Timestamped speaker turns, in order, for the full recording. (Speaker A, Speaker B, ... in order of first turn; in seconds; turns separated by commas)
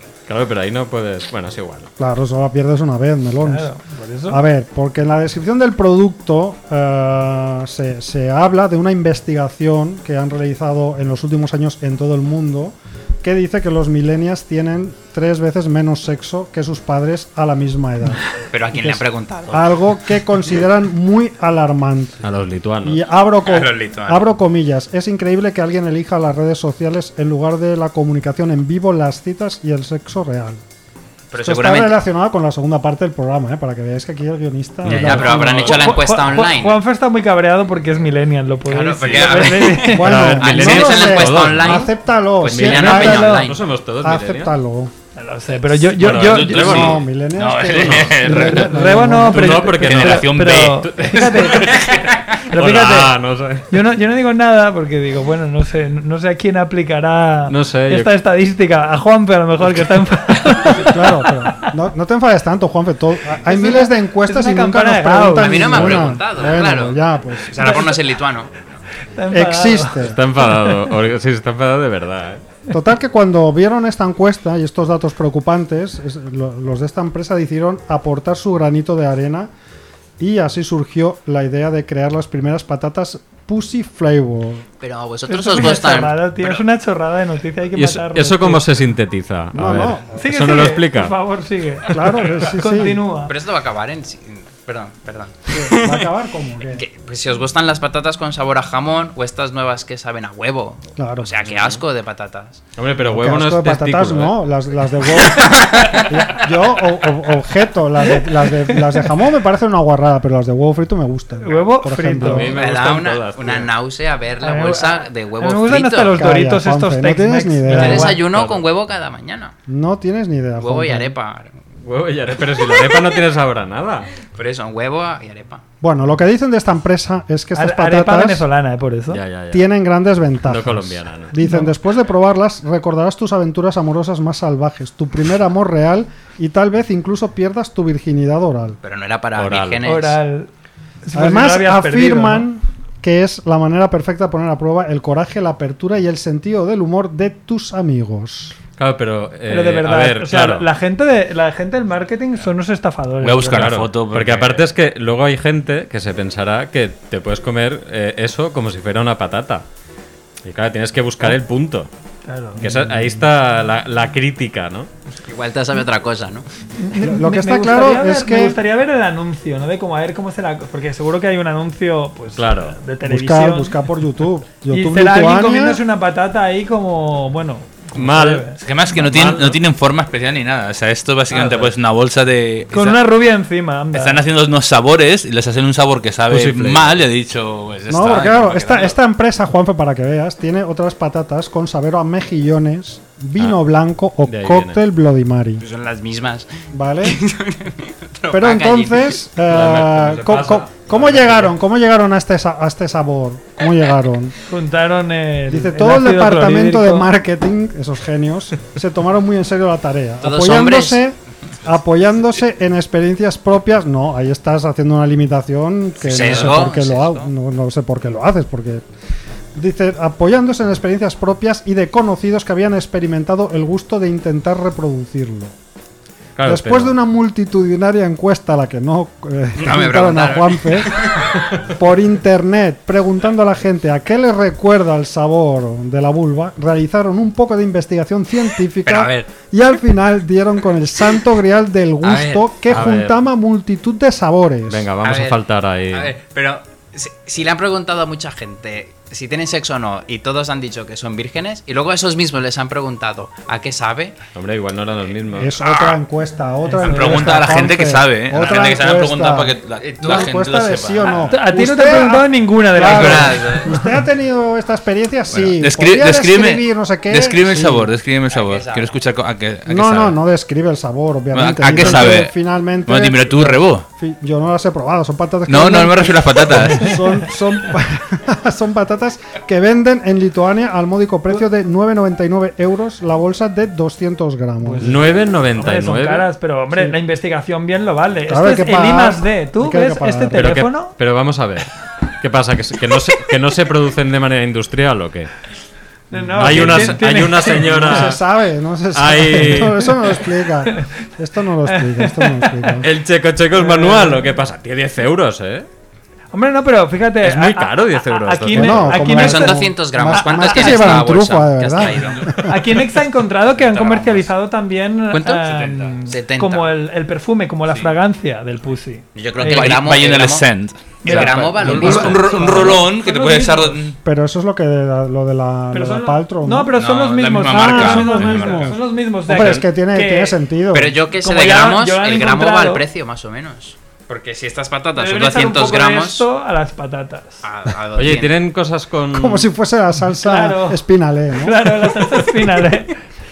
Speaker A: 0.3-1.9, Speaker B: 2.0-3.7, Speaker C: 3.4-4.4, Speaker B: 4.3-22.2, Speaker D: 18.5-19.8, Speaker A: 22.2-23.0, Speaker B: 22.8-30.6, Speaker D: 23.4-24.2, Speaker D: 31.3-31.9, Speaker B: 31.4-35.7, Speaker A: 34.8-36.0, Speaker D: 34.8-36.8, Speaker C: 35.5-40.3, Speaker D: 38.7-43.6, Speaker E: 39.1-39.4, Speaker A: 39.9-41.9, Speaker B: 39.9-44.9, Speaker A: 42.4-44.5, Speaker C: 45.1-46.9, Speaker A: 46.0-47.0, Speaker E: 46.0-48.7, Speaker B: 46.5-49.5, Speaker A: 47.6-53.6, Speaker C: 48.4-51.9, Speaker E: 49.5-52.1, Speaker C: 52.5-53.1, Speaker C: 53.7-61.7, Speaker A: 57.5-58.1, Speaker B: 60.7-67.9, Speaker C: 63.4-65.9, Speaker D: 65.3-68.6, Speaker C: 67.6-67.9, Speaker C: 69.1-70.9, Speaker B: 69.3-70.2, Speaker A: 70.0-72.4, Speaker B: 72.7-79.5, Speaker B: 80.2-84.6, Speaker D: 84.8-86.6, Speaker C: 85.3-88.7, Speaker A: 87.7-91.1, Speaker B: 89.5-90.2, Speaker C: 90.1-93.3, Speaker B: 91.9-93.0, Speaker D: 93.2-96.0, Speaker B: 95.5-96.8, Speaker D: 96.7-102.6, Speaker B: 101.0-101.3, Speaker A: 101.4-101.8, Speaker A: 102.8-104.3, Speaker B: 103.0-112.6, Speaker D: 105.2-106.2, Speaker C: 111.4-112.5, Speaker A: 112.2-113.7, Speaker D: 112.5-116.2, Speaker C: 114.4-118.2, Speaker B: 116.1-118.2, Speaker D: 117.7-119.5, Speaker A: 118.2-118.6, Speaker B: 119.7-121.1, Speaker D: 120.6-121.5, Speaker A: 121.8-124.1, Speaker D: 122.7-123.0, Speaker D: 124.3-125.6, Speaker B: 125.8-128.4, Speaker C: 127.5-129.2, Speaker A: 129.1-129.7, Speaker B: 129.5-138.8, Speaker A: 130.4-131.3, Speaker C: 131.4-131.7, Speaker D: 138.8-140.2, Speaker A: 139.3-139.8, Speaker C: 139.8-140.5, Speaker C: 141.0-142.4, Speaker B: 141.1-148.6, Speaker A: 148.8-150.7, Speaker C: 149.5-153.8, Speaker E: 153.2-154.7, Speaker A: 153.5-159.6, Speaker A: 160.4-161.9, Speaker C: 162.2-162.7, Speaker A: 162.6-164.9, Speaker D: 165.2-166.4, Speaker C: 166.8-173.7, Speaker B: 167.0-168.6, Speaker A: 172.4-172.7, Speaker B: 173.0-175.8, Speaker C: 174.7-178.6, Speaker A: 177.9-179.6, Speaker E: 178.6-183.0, Speaker C: 181.3-181.7, Speaker C: 182.7-184.2, Speaker E: 183.9-188.9, Speaker A: 186.3-187.0, Speaker B: 187.9-195.6, Speaker A: 194.2-194.8, Speaker D: 195.6-196.5, Speaker B: 196.7-197.2, Speaker D: 197.0-199.2, Speaker B: 198.3-204.3, Speaker A: 199.5-201.5, Speaker C: 204.5-207.1, Speaker B: 205.5-218.8, Speaker D: 210.2-211.0, Speaker D: 216.0-217.3, Speaker A: 216.2-216.6, Speaker B: 219.5-225.5, Speaker A: 226.3-226.9, Speaker B: 226.4-244.9, Speaker D: 229.6-231.4, Speaker D: 238.8-239.3, Speaker D: 242.0-242.4, Speaker A: 242.7-243.2, Speaker A: 244.7-246.1, Speaker D: 245.0-254.2, Speaker A: 254.3-255.6, Speaker B: 255.4-267.9, Speaker E: 256.8-261.3, Speaker D: 259.8-260.3, Speaker C: 261.3-263.9, Speaker D: 262.9-263.6, Speaker E: 265.3-270.2, Speaker D: 268.3-268.9, Speaker B: 269.7-285.0, Speaker E: 271.3-272.3, Speaker E: 272.9-273.9, Speaker E: 275.5-277.0, Speaker C: 284.6-290.9, Speaker A: 284.8-286.3, Speaker B: 288.3-290.6, Speaker A: 290.4-295.3, Speaker C: 296.1-298.1, Speaker B: 296.1-302.9, Speaker A: 296.4-298.2, Speaker A: 298.9-299.9, Speaker C: 300.6-300.9, Speaker C: 301.6-302.8, Speaker A: 302.8-305.7, Speaker C: 303.5-304.3, Speaker C: 306.3-311.0, Speaker A: 307.2-309.0, Speaker B: 308.5-312.5, Speaker D: 309.0-312.4, Speaker E: 311.9-312.4, Speaker C: 312.4-319.8, Speaker D: 313.7-314.2, Speaker E: 313.8-314.1, Speaker D: 315.1-316.7, Speaker E: 315.5-316.0, Speaker D: 319.1-320.5, Speaker E: 319.4-324.0, Speaker D: 321.0-322.8, Speaker C: 321.0-323.8, Speaker A: 321.1-322.1, Speaker B: 321.7-322.1, Speaker B: 324.0-326.7, Speaker C: 325.7-330.4, Speaker E: 326.7-328.8, Speaker B: 327.5-328.8, Speaker B: 329.3-331.0, Speaker D: 330.7-336.2, Speaker C: 331.2-332.8, Speaker C: 334.9-337.4, Speaker D: 337.4-338.3, Speaker A: 337.9-339.5, Speaker B: 339.1-342.0, Speaker C: 340.2-340.8, Speaker C: 341.4-343.0